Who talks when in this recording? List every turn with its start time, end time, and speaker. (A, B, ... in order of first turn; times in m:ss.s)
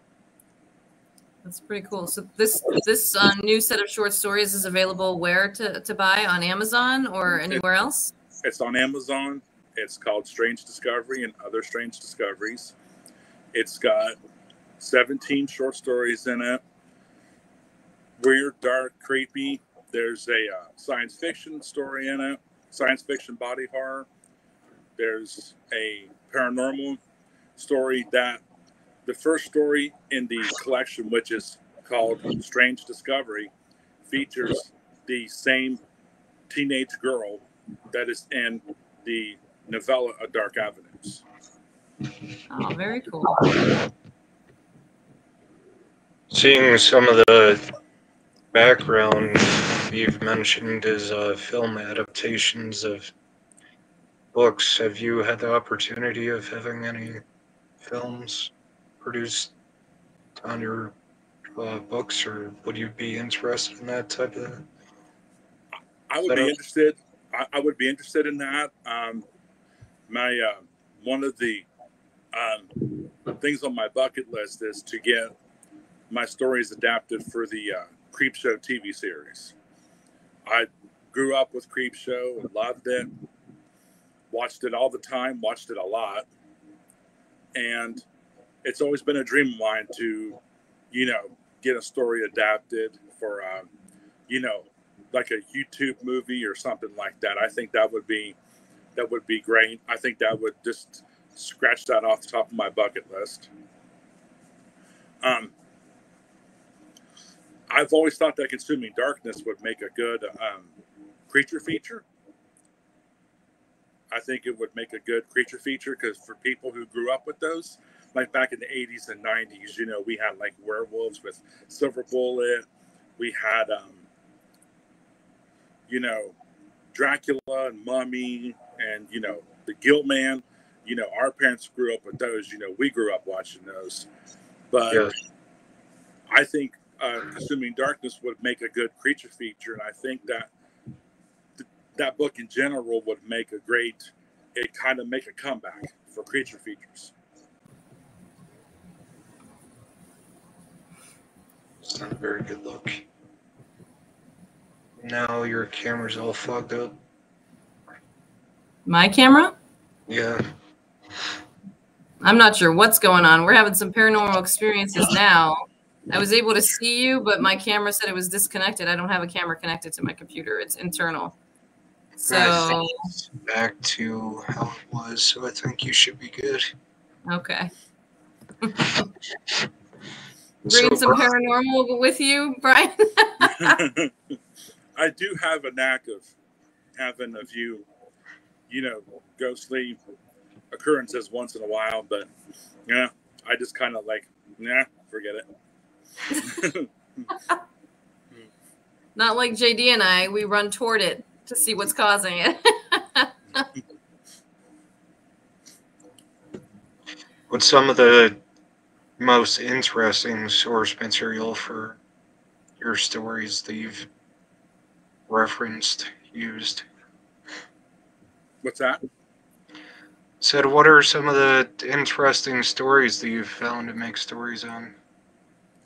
0:01.4-0:08.1 A
0:08.4-0:12.8 B
0:13.5-0:14.2 B
0:14.8-0:16.6 B
0:18.2-0:24.1 B
0:25.0-0:27.0 B
0:27.6-0:28.4 B
0:29.0-0:33.5 B
0:34.0-0:35.8 B
0:36.5-0:41.2 B
0:42.5-0:43.5 A
0:46.3-0:47.6 C
0:48.5-0:53.1 C
0:54.3-0:57.2 C
0:57.8-0:59.5 C
1:00.4-1:00.9 C
1:01.6-1:04.7 C
1:05.7-1:09.2 B
1:06.3-1:06.5 C
1:10.1-1:11.7 B
1:12.3-1:15.3 B
1:16.1-1:19.5 B
1:20.4-1:23.1 B
1:24.3-1:26.3 B
1:27.5-1:28.0 B
1:28.6-1:30.4 B
1:30.9-1:33.7 B
1:34.3-1:38.4 B
1:38.9-1:43.5 B
1:45.2-1:45.5 B
1:47.7-1:50.7 B
1:51.3-1:52.0 B
1:54.1-2:02.7 B
2:03.2-2:04.0 B
2:05.9-2:06.4 B
2:06.9-2:14.1 B
2:14.7-2:15.1 B
2:16.3-2:20.5 B
2:21.6-2:27.1 B
2:31.8-2:33.0 C
2:35.0-2:37.0 C
2:38.9-2:39.6 A
2:40.1-2:40.4 C
2:42.2-2:51.4 A
2:52.2-2:53.0 A
2:52.2-2:56.7 C
2:57.3-2:57.7 A
2:58.6-2:59.0 A
3:00.6-3:01.3 C
3:00.7-3:03.8 A
3:03.4-3:04.1 B
3:05.0-3:06.3 B
3:07.0-3:07.9 B
3:08.7-3:10.0 B
3:10.7-3:12.3 B
3:12.9-3:15.5 B
3:16.4-3:17.3 B
3:19.2-3:23.7 A
3:27.5-3:28.4 C
3:29.2-3:32.0 C
3:32.8-3:34.1 C
3:35.3-3:36.9 C
3:38.6-3:39.0 B
3:40.4-3:45.0 C